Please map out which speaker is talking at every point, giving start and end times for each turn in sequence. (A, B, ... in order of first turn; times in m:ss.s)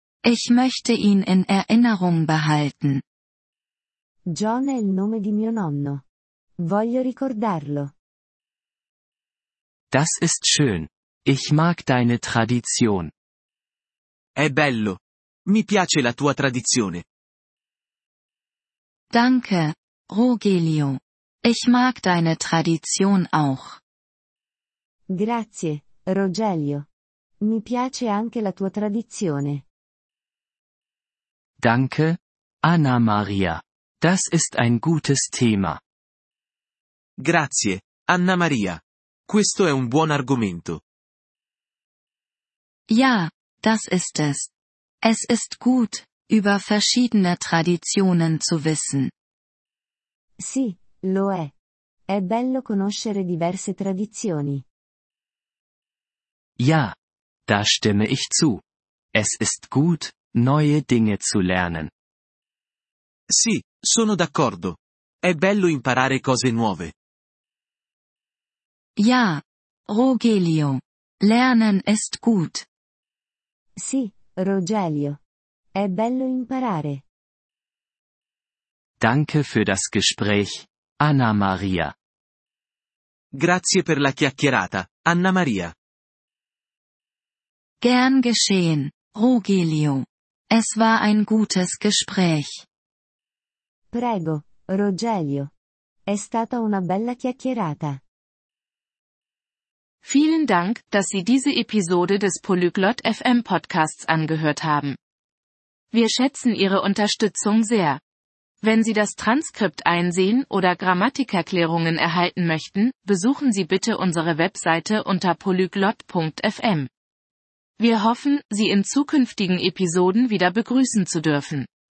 0:00.2-0:03.0 A
0:04.2-0:06.0 B
0:06.6-0:07.9 B
0:09.9-0:13.1 C
0:14.4-0:17.0 D
0:19.1-0:23.8 A
0:25.1-0:26.9 B
0:27.4-0:29.6 B
0:31.6-0:35.8 C
0:37.2-0:40.8 D
0:42.9-0:44.5 A
0:45.0-0:49.1 A
0:50.4-0:51.5 B
0:52.1-0:54.6 B
0:56.6-0:56.9 C
0:57.5-0:58.6 C
0:59.1-1:01.9 C
1:03.3-1:06.9 D
1:09.0-1:12.6 A
1:13.8-1:15.2 B
1:15.7-1:17.0 B
1:19.0-1:21.9 C
1:23.3-1:25.7 D
1:27.8-1:32.6 A
1:33.9-1:35.5 B
1:36.1-1:38.0 B
1:40.0-1:45.0 E
1:45.9-1:48.0 E
1:48.6-1:56.9 E
1:57.8-2:01.7 E